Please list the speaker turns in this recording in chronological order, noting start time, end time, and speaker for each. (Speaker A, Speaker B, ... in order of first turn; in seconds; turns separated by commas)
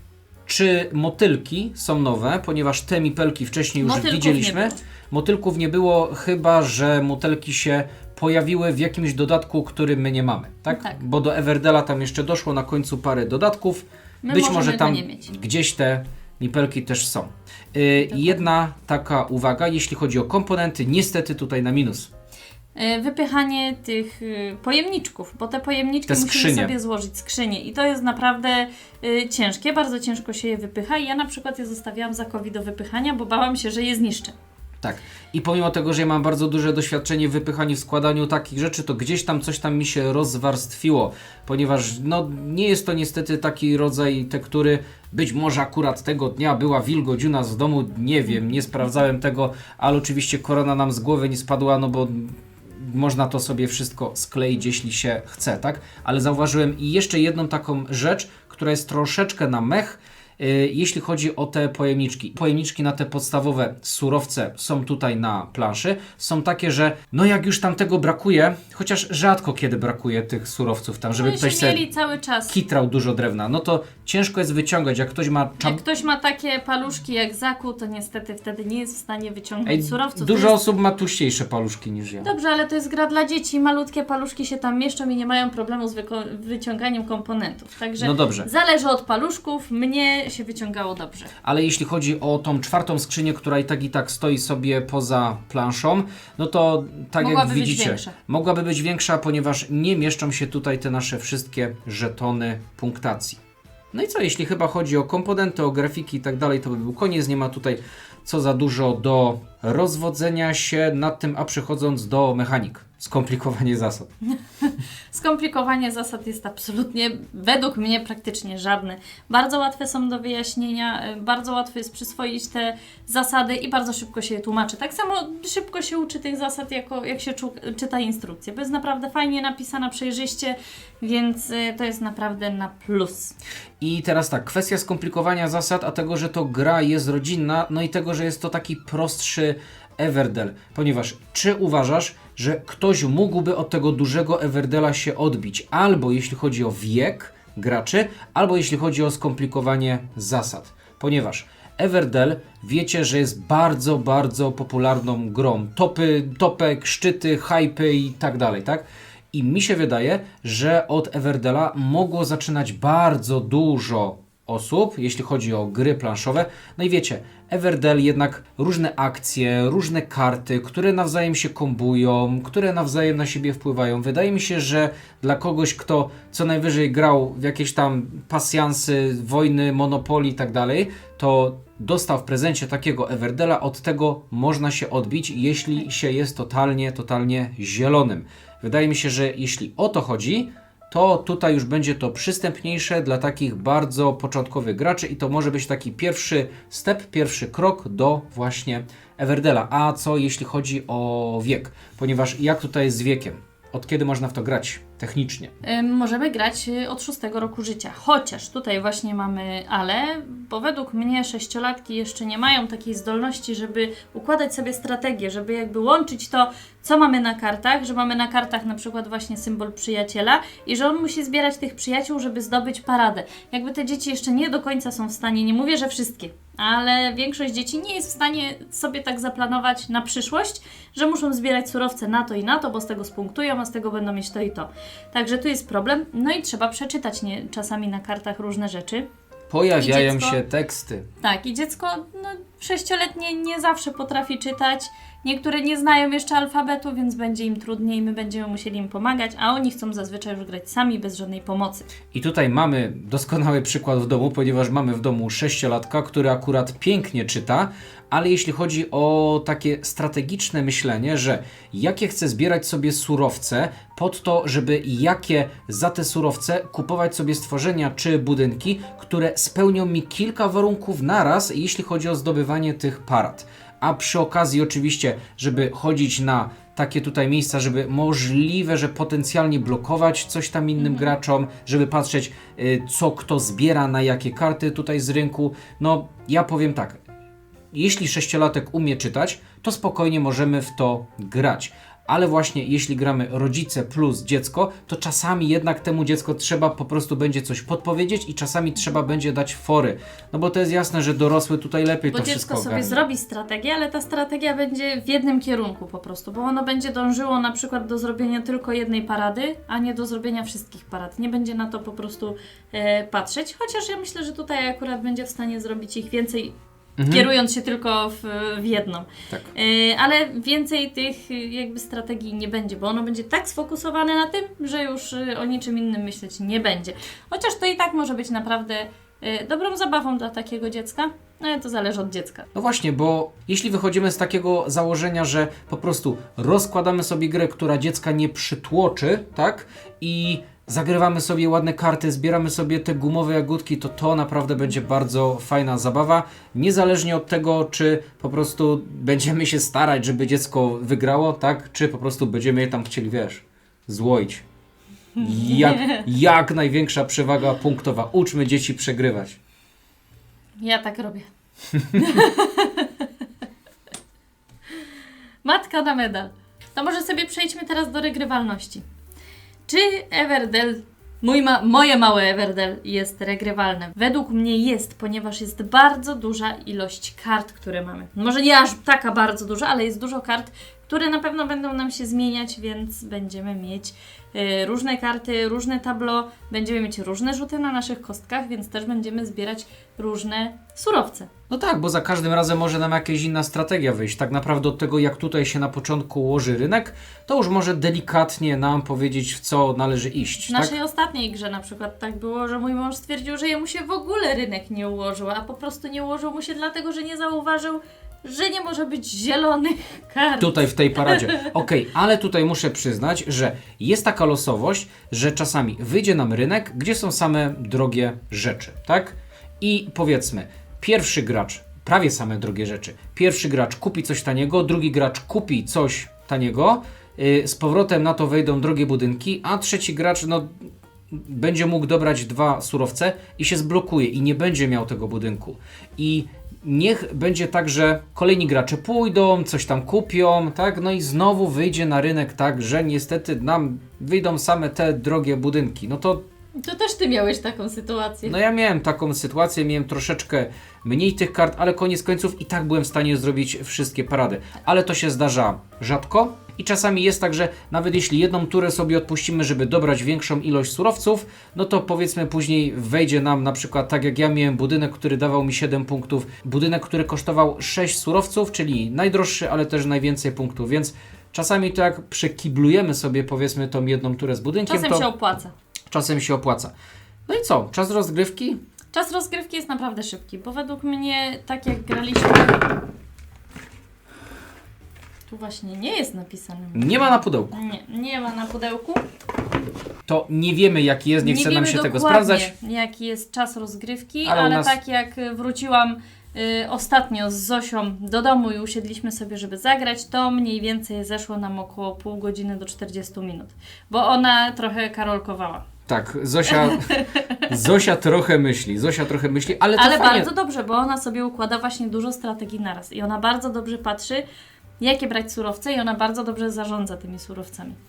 Speaker A: 0.5-22.1, Speaker B: 3.8-4.8, Speaker B: 10.7-11.0, Speaker B: 14.2-15.3, Speaker B: 18.1-18.4, Speaker B: 22.8-34.3, Speaker A: 26.1-26.8, Speaker A: 34.8-71.8, Speaker B: 71.2-72.5, Speaker A: 72.5-75.8, Speaker B: 75.6-80.6, Speaker A: 79.7-82.3, Speaker B: 82.2-91.3, Speaker A: 88.0-88.5, Speaker A: 91.4-103.4, Speaker B: 97.2-98.2, Speaker A: 103.9-114.1, Speaker B: 114.6-133.3, Speaker A: 133.8-205.5, Speaker B: 205.6-239.1, Speaker A: 239.5-241.1, Speaker B: 239.8-240.4, Speaker B: 241.2-251.9, Speaker A: 252.1-287.0, Speaker A: 287.7-303.0, Speaker B: 302.1-316.5, Speaker A: 317.0-317.3, Speaker B: 317.1-332.5, Speaker A: 332.5-354.4, Speaker B: 355.2-356.1, Speaker A: 355.2-359.4, Speaker B: 360.6-361.3, Speaker B: 361.9-363.1, Speaker B: 365.4-368.8, Speaker B: 369.7-391.3, Speaker A: 391.5-400.7, Speaker B: 400.4-411.5, Speaker A: 410.4-446.2, Speaker B: 446.6-448.4, Speaker A: 448.2-475.1, Speaker B: 474.7-475.5, Speaker A: 475.9-476.7, Speaker A: 477.3-478.6, Speaker B: 478.9-482.7, Speaker B: 485.3-489.0, Speaker A: 486.7-487.5, Speaker A: 490.1-492.5, Speaker B: 491.2-505.7, Speaker A: 494.2-494.8, Speaker A: 505.9-506.9, Speaker B: 506.5-507.5, Speaker A: 507.5-510.3, Speaker B: 509.8-514.2, Speaker B: 514.8-517.8